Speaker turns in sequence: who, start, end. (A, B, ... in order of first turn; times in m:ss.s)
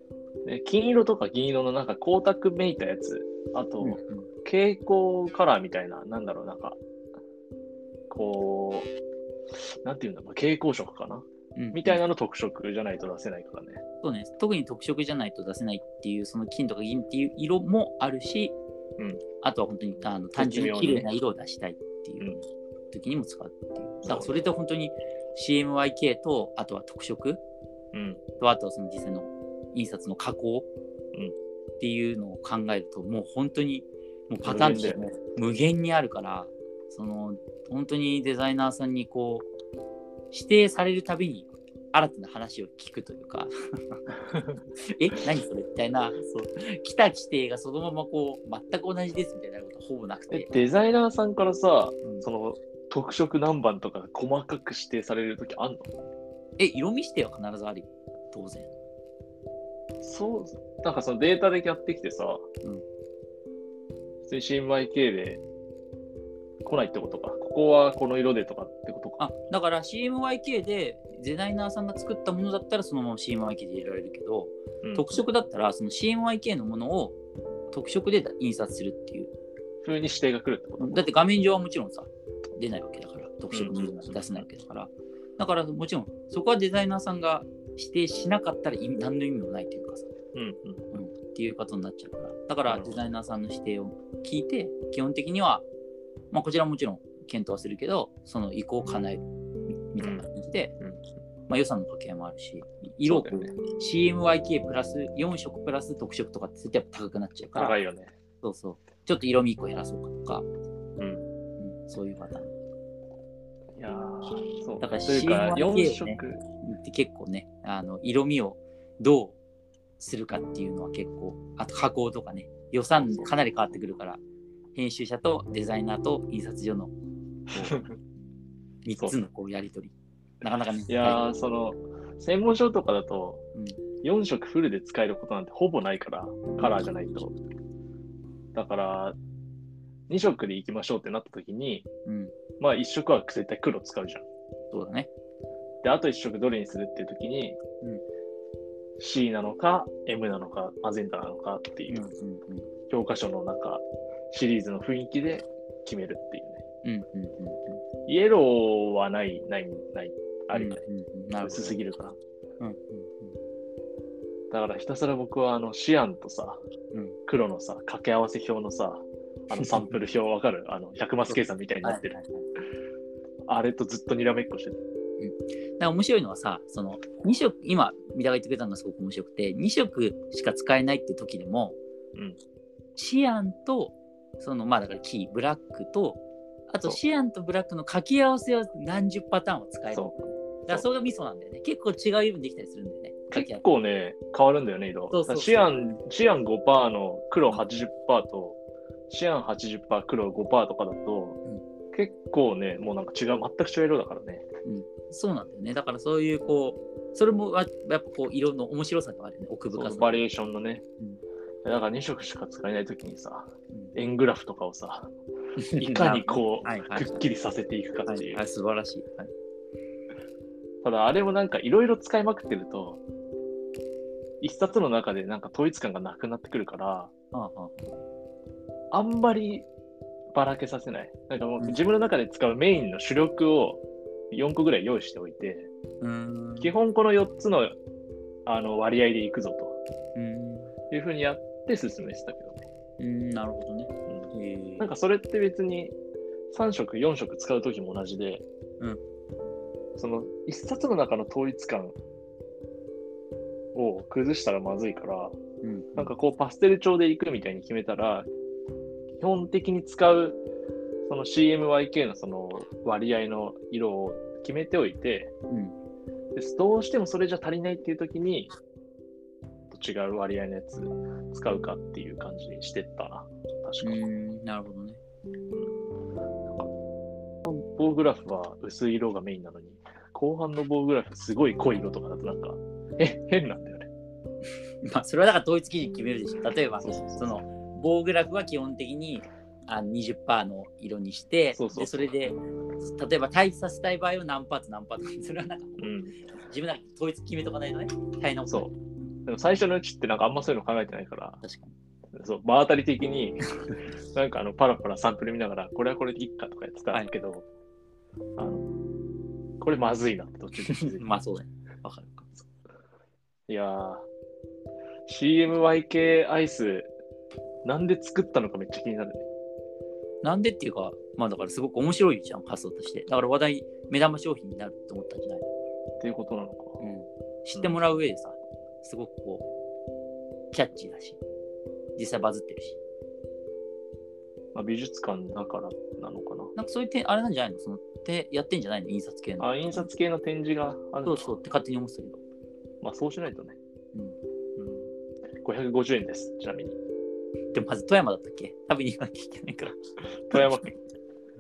0:00.4-0:06.8 A
0:03.8-0:04.3 B
0:08.1-0:08.9 A
0:09.8-0:13.8 A
0:11.6-0:12.0 B
0:14.0-0:18.6 B
0:19.4-0:22.4 B
0:20.4-0:21.1 A
0:22.9-0:27.4 B
0:24.0-0:24.4 A
0:27.9-0:28.2 A
0:28.4-0:30.7 B
0:31.8-0:39.5 B
0:34.4-0:35.1 A
0:40.3-0:44.0 B
0:44.3-0:44.6 A
0:44.8-0:50.5 B
0:50.3-0:55.9 A
0:56.6-0:58.7 B
1:00.0-1:02.5 A
1:04.3-1:05.4 A
1:06.6-1:09.2 A
1:09.2-1:17.2 B
1:14.8-1:15.2 A
1:17.7-1:19.3 B
1:19.8-1:21.1 A
1:20.8-1:30.1 B
1:23.5-1:24.4 A
1:30.3-1:31.0 A
1:30.9-1:35.6 B
1:32.7-1:33.0 A
1:36.3-1:40.8 B
1:40.0-1:40.3 A
1:41.5-1:47.8 B
1:43.0-1:43.6 A
1:47.6-1:48.2 A
1:48.4-1:50.4 B
1:51.0-1:51.3 A
1:51.6-1:52.5 B
1:53.8-1:56.4 A
1:54.8-1:59.4 B
2:00.0-2:04.2 B
2:03.0-2:03.4 A
2:04.8-2:06.9 B
2:07.5-2:07.9 B
2:07.6-2:08.0 A
2:08.8-2:11.2 B
2:10.9-2:13.4 A
2:14.0-2:17.4 A
2:16.6-2:17.0 B
2:18.6-2:19.2 A
2:20.1-2:21.9 A
2:22.1-2:22.3 B
2:22.6-2:24.3 A
2:24.7-2:25.1 B
2:25.8-2:27.6 A
2:29.0-2:32.1 A
2:31.9-2:32.7 B
2:32.9-2:36.6 A
2:36.8-2:37.8 B
2:38.1-2:40.8 A
2:40.5-2:41.8 B
2:41.4-2:42.2 A
2:42.6-2:43.4 B
2:44.5-2:46.6 A
2:47.3-2:52.2 A
2:49.6-2:50.0 B
2:51.3-2:52.4 B
2:53.5-2:54.8 A
2:55.2-3:01.8 B
3:03.0-3:13.6 B
3:13.3-3:21.4 A
3:15.1-3:16.0 B
3:21.9-3:24.4 A
3:24.6-3:30.2 B
3:29.7-3:30.8 A
3:31.6-3:35.1 A
3:33.7-3:34.0 B
3:35.6-3:37.2 B
3:35.7-3:38.4 A
3:38.1-3:39.3 B
3:40.8-3:43.0 A
3:44.4-3:47.1 A
3:47.3-3:48.0 B
3:48.9-3:49.7 A
3:50.3-3:55.7 A
3:56.0-3:56.7 B
3:56.6-3:57.8 A
3:58.5-3:59.8 A
4:00.2-4:00.7 B
4:00.9-4:02.7 A
4:03.0-4:04.9 B
4:04.1-4:06.0 A
4:06.5-4:08.4 A
4:10.0-4:12.0 A
4:13.7-4:15.4 A
4:15.6-4:16.1 B
4:16.0-4:18.3 A
4:19.2-4:20.4 A
4:21.1-4:25.3 A
4:25.5-4:25.8 B
4:26.4-4:28.5 A
4:29.7-4:34.0 A
4:33.8-4:35.0 B
4:37.4-4:43.9 A
4:44.8-4:58.8 B
4:46.9-4:47.3 A
4:51.5-4:52.2 A
4:55.8-4:56.2 A
4:59.3-5:01.4 A
5:01.4-5:01.8 B
5:02.1-5:03.5 A
5:04.1-5:07.5 A
5:08.4-5:08.7 A
5:09.6-5:11.1 A
5:10.7-5:12.5 B
5:13.5-5:14.1 A
5:15.1-5:16.9 A
5:17.6-5:19.3 A
5:20.2-5:25.5 B
5:26.0-5:26.8 A
5:26.8-5:29.5 B
5:27.6-5:27.8 A
5:30.5-5:31.2 B
5:32.0-5:32.8 B
5:34.6-5:36.5 A
5:36.6-5:39.9 B
5:39.4-5:41.3 A
5:41.0-5:42.2 B
5:42.8-5:43.6 A
5:44.6-5:44.9 A
5:45.4-5:46.8 A
5:47.5-5:49.8 B
5:50.3-5:50.8 A
5:50.3-5:50.6 B